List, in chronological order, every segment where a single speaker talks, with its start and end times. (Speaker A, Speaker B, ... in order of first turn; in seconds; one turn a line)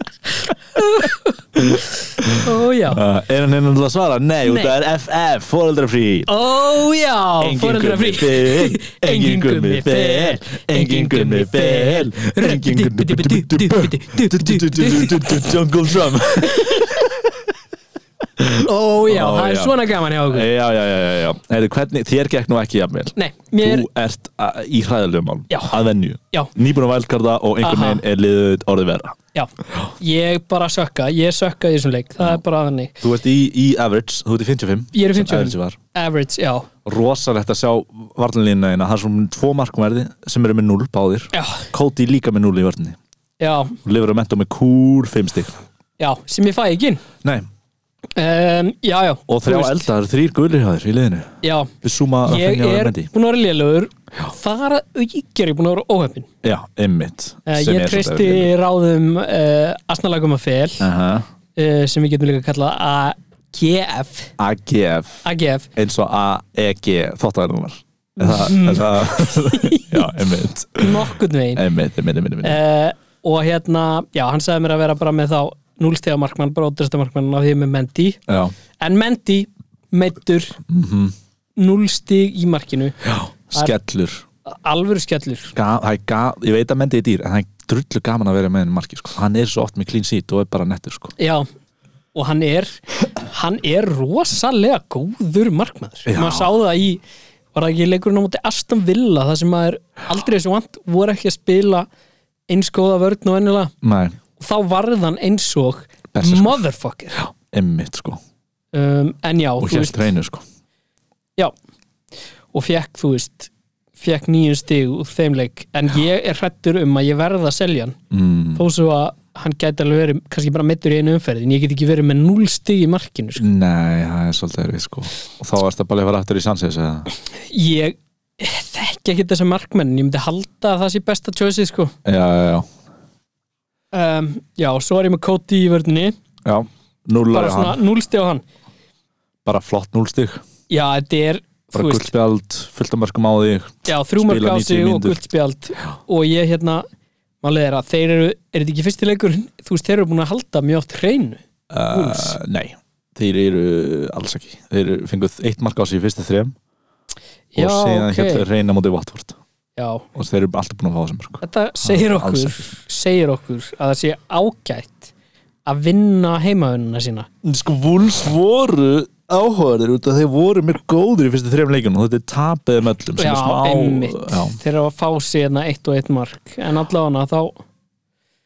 Speaker A: 0.8-3.0
Speaker B: 1.6-6.3
Speaker A: 4.5-4.7
Speaker A: 6.3-15.5
Speaker B: 7.4-17.1
Speaker A: 16.4-17.1
Speaker B: 18.4-29.2
Speaker A: 18.6-20.5
Speaker A: 23.2-23.9
Speaker A: 27.6-28.0
Speaker A: 29.3-33.0
Speaker B: 33.0-35.8
Speaker A: 34.9-36.7
Speaker B: 36.9-43.0
Speaker A: 41.3-41.7
Speaker A: 43.4-43.8
Speaker B: 43.8-45.6
Speaker A: 46.0-47.0
Speaker A: 48.2-49.9
Speaker B: 49.3-51.3
Speaker A: 51.4-51.7
Speaker B: 51.8-53.1
Speaker A: 52.2-56.3
Speaker B: 56.4-58.5
Speaker A: 57.5-60.9
Speaker B: 60.8-61.2
Speaker A: 61.6-64.3
Speaker B: 64.4-65.2
Speaker A: 65.2-65.7
Speaker B: 65.8-72.6
Speaker A: 68.2-70.1
Speaker A: 70.8-71.7
Speaker A: 72.4-78.2
Speaker B: 78.3-78.5
Speaker A: 78.8-80.6
Speaker B: 80.7-81.1
Speaker A: 81.6-83.0
Speaker B: 83.0-84.2
Speaker A: 84.5-85.5
Speaker B: 85.5-91.2
Speaker A: 91.2-91.5
Speaker A: 92.1-97.0
Speaker B: 96.1-96.5
Speaker A: 97.5-101.9
Speaker A: 102.5-103.7
Speaker B: 103.8-104.2
Speaker A: 104.4-107.2
Speaker B: 106.1-106.6
Speaker B: 107.2-108.2
Speaker A: 108.7-110.1
Speaker B: 109.6-110.4
Speaker A: 112.5-118.0
Speaker B: 118.1-118.7
Speaker A: 118.5-123.4
Speaker B: 123.4-127.1
Speaker A: 127.4-131.9
Speaker B: 132.1-132.7
Speaker A: 133.9-136.2
Speaker B: 136.4-137.8
Speaker A: 137.3-138.4
Speaker B: 139.4-140.4
Speaker A: 140.7-142.1
Speaker B: 141.7-145.2
Speaker A: 143.9-146.8
Speaker A: 147.4-152.4
Speaker B: 151.7-156.6
Speaker A: 157.5-158.4
Speaker B: 157.6-159.4
Speaker A: 159.8-160.1
Speaker B: 160.2-162.7
Speaker A: 161.4-165.1
Speaker A: 165.7-167.3
Speaker B: 167.4-174.6
Speaker A: 173.2-177.6